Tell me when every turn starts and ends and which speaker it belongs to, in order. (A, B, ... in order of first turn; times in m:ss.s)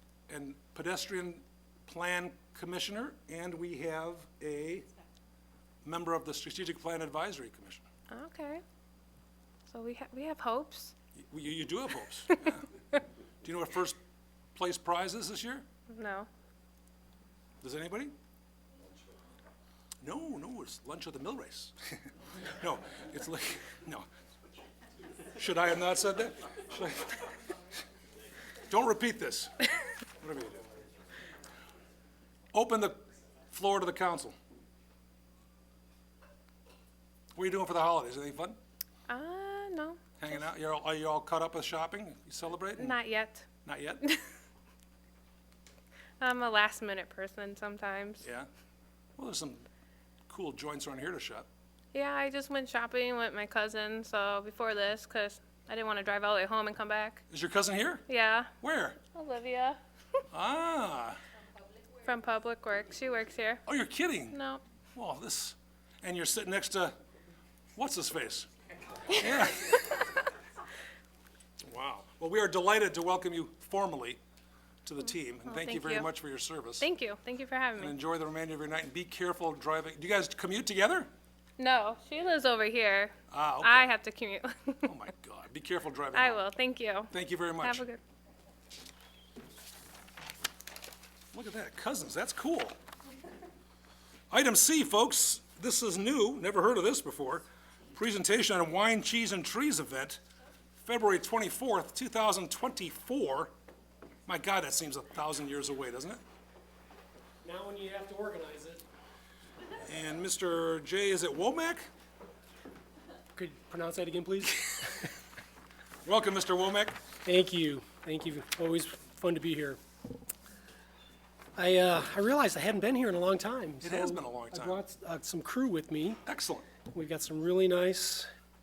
0:00.3-0:04.9 A
0:05.8-0:07.8 A
0:08.1-0:08.6 B
0:09.7-0:10.9 B
0:11.2-0:12.7 A
0:13.4-0:14.0 A
0:14.5-0:15.6 A
0:15.9-0:16.3 B
0:17.6-0:18.1 A
0:20.0-0:24.1 A
0:25.4-0:27.3 A
0:28.7-0:29.6 A
0:30.2-0:30.6 A
0:32.5-0:34.4 A
0:37.3-0:38.6 A
0:39.1-0:40.2 B
0:40.2-0:43.0 A
0:42.8-0:43.5 B
0:43.6-0:44.0 A
0:46.2-0:48.2 B
0:48.2-0:48.5 A
0:49.2-0:49.6 A
0:50.3-0:51.5 A
0:51.9-0:57.2 B
0:57.3-0:58.0 A
0:58.1-0:58.5 B
0:58.6-0:59.0 A
0:59.1-0:59.8 B
1:00.3-1:01.2 A
1:02.0-1:03.6 B
1:03.6-1:04.4 A
1:04.3-1:04.6 B
1:04.9-1:07.0 A
1:07.8-1:08.5 A
1:09.1-1:09.9 A
1:11.6-1:14.2 A
1:14.8-1:16.9 A
1:15.4-1:16.1 B
1:16.8-1:17.9 B
1:17.8-1:21.1 A
1:21.6-1:24.9 B
1:23.3-1:23.9 A
1:24.8-1:26.5 A
1:26.1-1:28.0 B
1:27.1-1:27.8 A
1:31.3-1:32.8 A
1:34.3-1:40.2 A
1:40.8-1:43.5 A
1:44.2-1:46.2 A
1:47.4-1:48.8 C
1:49.8-1:51.8 A
1:53.3-1:55.0 C
1:56.0-1:57.0 A
1:57.2-1:59.8 C
2:01.5-2:06.2 C
2:03.8-2:04.8 A
2:06.2-2:06.7 A
2:06.9-2:08.3 C